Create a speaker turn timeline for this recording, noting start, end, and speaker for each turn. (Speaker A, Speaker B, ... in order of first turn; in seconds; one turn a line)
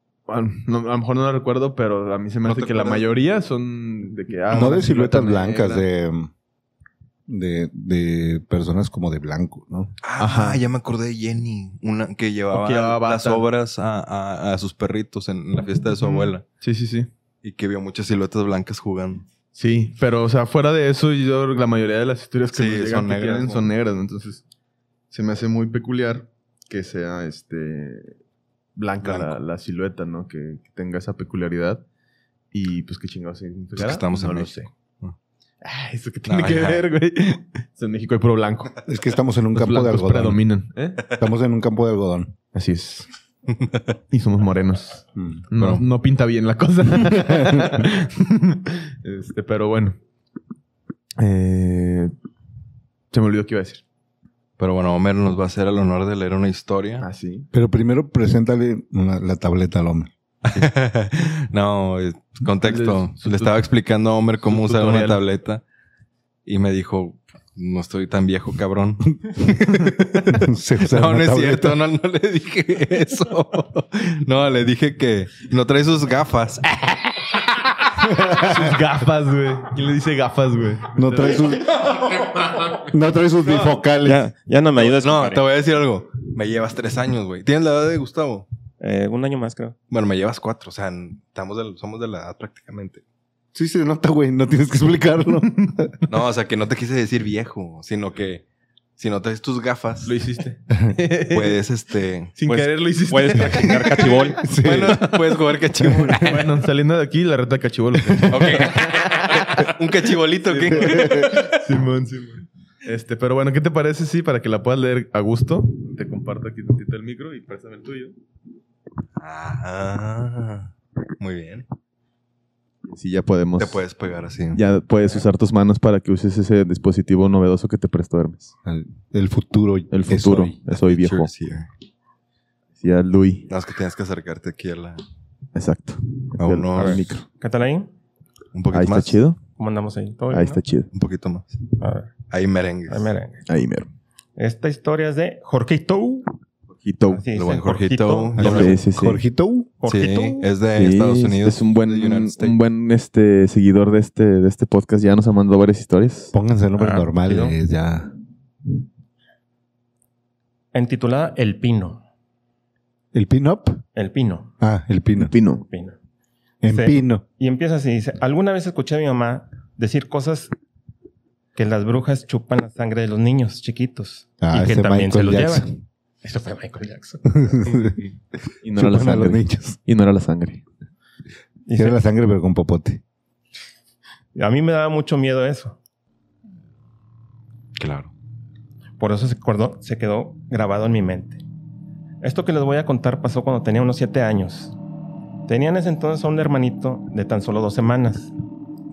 Speaker A: 0.3-5.9
Speaker B: 2.5-3.1
Speaker B: 4.5-4.8
Speaker C: 4.5-6.3
Speaker C: 7.3-9.9
Speaker B: 10.0-16.4
Speaker A: 10.2-10.6
Speaker A: 12.5-13.4
Speaker A: 16.0-17.1
Speaker B: 17.4-19.2
Speaker A: 19.5-24.4
Speaker B: 22.5-23.7
Speaker A: 25.1-28.2
Speaker A: 28.8-31.8
Speaker A: 32.5-34.7
Speaker B: 33.8-35.2
Speaker A: 35.6-38.8
Speaker B: 36.2-36.9
Speaker C: 38.9-40.4
Speaker A: 39.5-41.1
Speaker C: 41.1-42.3
Speaker A: 42.5-43.1
Speaker B: 43.5-43.8
Speaker A: 44.1-50.0
Speaker C: 45.2-45.5
Speaker B: 45.5-45.9
Speaker A: 51.2-52.1
Speaker A: 53.1-53.8
Speaker B: 54.6-57.1
Speaker A: 57.0-57.5
Speaker C: 57.5-60.1
Speaker B: 60.5-65.6
Speaker A: 62.6-63.6
Speaker A: 64.5-65.2
Speaker B: 66.5-77.3
Speaker C: 70.3-71.8
Speaker A: 78.3-81.4
Speaker C: 81.0-81.9
Speaker C: 82.8-84.2
Speaker D: 84.0-85.5
Speaker B: 84.8-88.5
Speaker D: 88.8-89.8
Speaker B: 89.9-93.0
Speaker C: 93.5-96.0
Speaker B: 96.1-98.4
Speaker B: 99.0-100.2
Speaker A: 100.0-101.6
Speaker B: 101.3-102.8
Speaker A: 102.4-104.2
Speaker D: 103.1-104.4
Speaker B: 104.4-106.5
Speaker C: 104.4-105.0
Speaker C: 105.9-106.2
Speaker A: 106.2-109.7
Speaker B: 108.3-111.5
Speaker A: 110.5-118.1
Speaker C: 110.7-111.3
Speaker B: 119.2-121.7
Speaker A: 122.9-123.8
Speaker B: 123.6-124.6
Speaker A: 124.5-128.5
Speaker C: 128.7-130.6
Speaker A: 129.9-131.3
Speaker B: 130.8-131.7
Speaker A: 132.8-133.5
Speaker B: 133.5-135.0
Speaker A: 135.6-137.2
Speaker B: 136.4-137.1
Speaker D: 136.8-137.9
Speaker B: 138.5-139.2
Speaker A: 138.7-139.4
Speaker D: 139.6-140.6
Speaker A: 140.3-140.9
Speaker B: 140.9-141.5
Speaker D: 141.8-142.1
Speaker B: 142.3-143.1
Speaker D: 142.9-143.4
Speaker A: 143.5-143.9
Speaker D: 144.4-146.3
Speaker A: 146.8-147.3
Speaker D: 147.1-148.8
Speaker B: 147.3-148.8
Speaker C: 148.4-149.7
Speaker A: 148.4-149.2
Speaker D: 149.8-150.5
Speaker B: 149.9-152.6
Speaker A: 150.8-156.3
Speaker C: 156.3-158.1
Speaker D: 156.8-157.6
Speaker D: 160.7-162.0
Speaker C: 163.1-163.8
Speaker D: 163.9-164.5
Speaker C: 164.6-165.3
Speaker A: 165.2-165.6
Speaker D: 165.6-166.0
Speaker C: 166.6-167.2
Speaker D: 166.7-170.5
Speaker D: 171.6-177.4
Speaker C: 174.4-175.7
Speaker C: 177.2-178.0
Speaker A: 178.6-180.6
Speaker C: 178.8-179.8
Speaker D: 181.7-182.0
Speaker C: 181.8-183.0
Speaker D: 184.3-185.8
Speaker B: 187.8-188.1
Speaker D: 189.0-191.4
Speaker D: 192.2-194.8
Speaker D: 195.5-198.3